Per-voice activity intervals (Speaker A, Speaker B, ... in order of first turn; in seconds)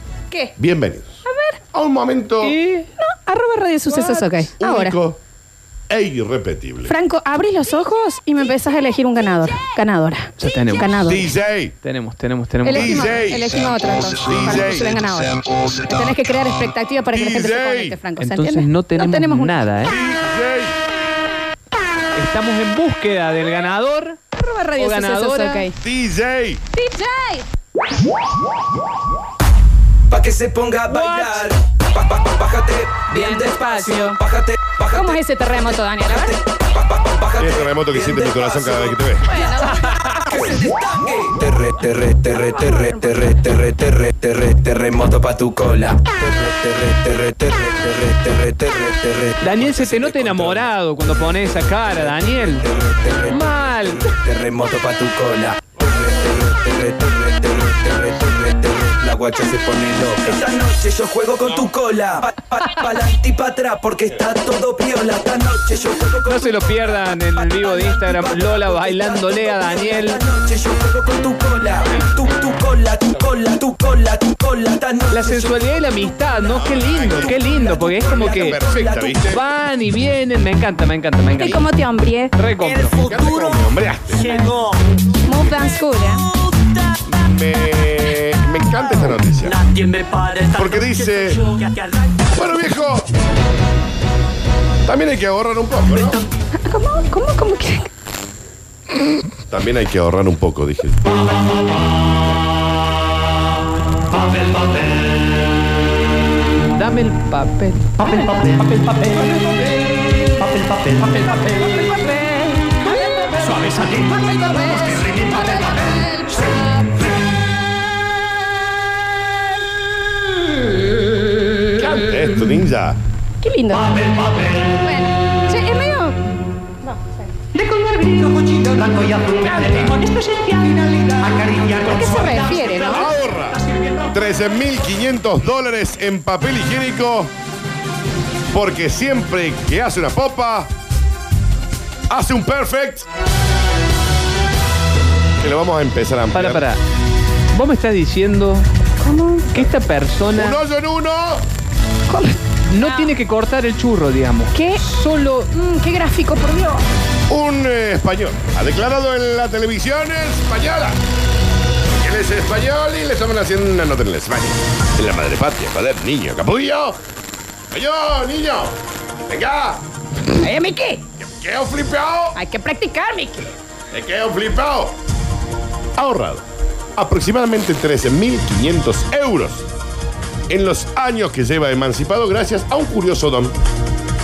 Speaker A: 0.3-0.6, 1.2-1.6, 3.0-5.0, 6.9-11.3, 12.6-19.7, 24.3-25.7, 26.7-27.5, 33.1-34.2, 34.9-36.4, 39.2-40.7, 42.6-43.1, 81.4-82.4, 85.2-86.3, 96.6-97.9, 108.1-108.4, 111.5-116.7, 123.4-126.2, 126.8-127.2, 129.3-129.9, 131.8-133.1, 149.0-149.6, 152.1-153.2, 154.5-156.8, 170.3-171.0, 172.3-173.5
Speaker B: 0.6-1.2, 1.7-2.6, 4.6-5.2, 5.9-6.9, 11.1-11.8, 12.7-13.6, 14.2-15.0, 17.1-18.0, 19.9-20.8, 25.8-26.6, 37.4-39.3, 76.5-77.5, 78.1-79.4, 82.9-84.4, 87.0-89.7, 90.5-91.5, 92.3-93.1, 94.8-96.2, 99.5-101.1, 121.7-123.0, 132.8-137.3, 138.5-140.7, 142.1-143.1, 145.4-146.7, 150.3-151.4, 157.3-161.0, 161.9-167.0, 167.7-168.8, 169.3-169.8, 171.2-172.4, 173.9-174.9, 176.0-176.4, 177.0-179.7, 180.5-183.6
Speaker C: 2.4-2.9, 3.9-4.5, 10.4-11.1, 11.8-13.2, 18.2-20.0, 22.1-24.2, 24.8-25.7, 30.9-31.5, 49.4-52.7, 53.3-54.2, 66.2-70.2, 75.1-78.6, 79.3-81.7, 82.4-83.0, 106.8-109.4, 146.3-146.8, 147.5-148.7, 149.5-150.6, 152.7-155.4
Speaker D: 30.1-35.2, 36.1-39.1, 40.2-50.7, 52.5-75.7, 76.3-79.3, 82.9-83.2, 84.3-84.8, 89.7-90.5, 91.5-91.8
Speaker E: 128.1-129.1, 130.3-131.7